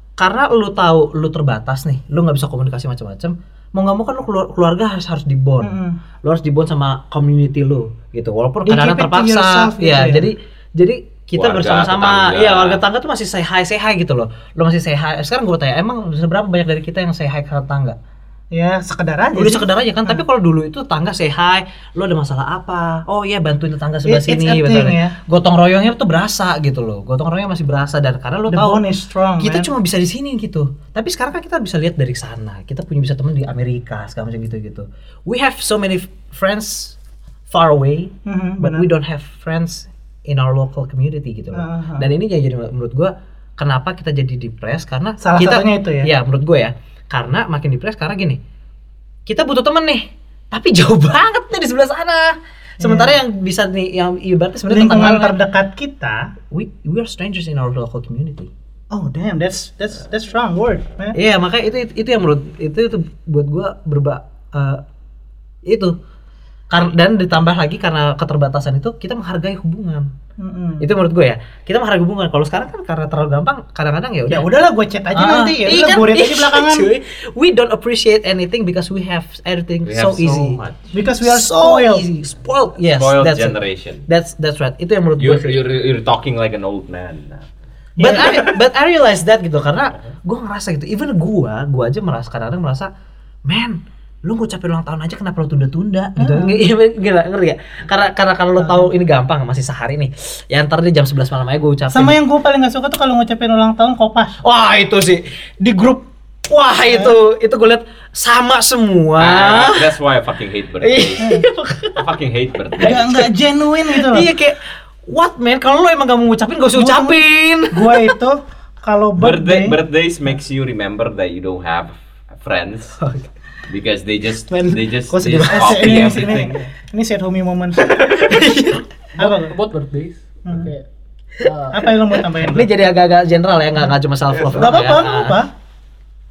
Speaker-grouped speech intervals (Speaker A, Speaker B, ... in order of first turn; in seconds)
Speaker A: 0.2-5.7, 6.2-18.0, 19.4-28.8, 29.4-37.0, 37.5-48.4, 49.3-55.4, 56.5-58.5, 61.1-64.8, 65.7-65.9, 66.7-70.1, 70.8-74.5, 75.1-80.6, 81.2-85.6, 88.0-92.9, 93.5-102.2, 104.4-109.9, 110.8-112.0, 112.9-113.2, 113.9-118.1, 123.0-123.3, 124.5-126.3, 127.9-128.9, 132.1-135.4
Speaker B: 5.6-6.0, 8.7-10.3, 18.5-20.2, 24.1-25.2, 28.5-29.7, 38.3-38.9, 41.5-42.1, 45.2-46.1, 52.8-53.2, 54.7-56.3, 58.9-61.2, 70.4-70.9, 74.3-76.9, 80.9-82.0, 88.0-88.5, 96.2-96.6, 98.6-98.9, 101.9-104.4, 106.9-107.2, 112.8-114.3, 116.8-119.8, 125.5-127.9, 129.2-129.6, 131.7-132.7, 134.6-135.5
Speaker C: 11.3-12.8, 79.8-80.8, 82.8-84.0, 85.2-87.5, 109.2-111.2, 112.0-113.3, 119.2-123.0, 123.7-126.7, 134.3-134.7
Speaker D: 129.2-130.9, 131.4-131.9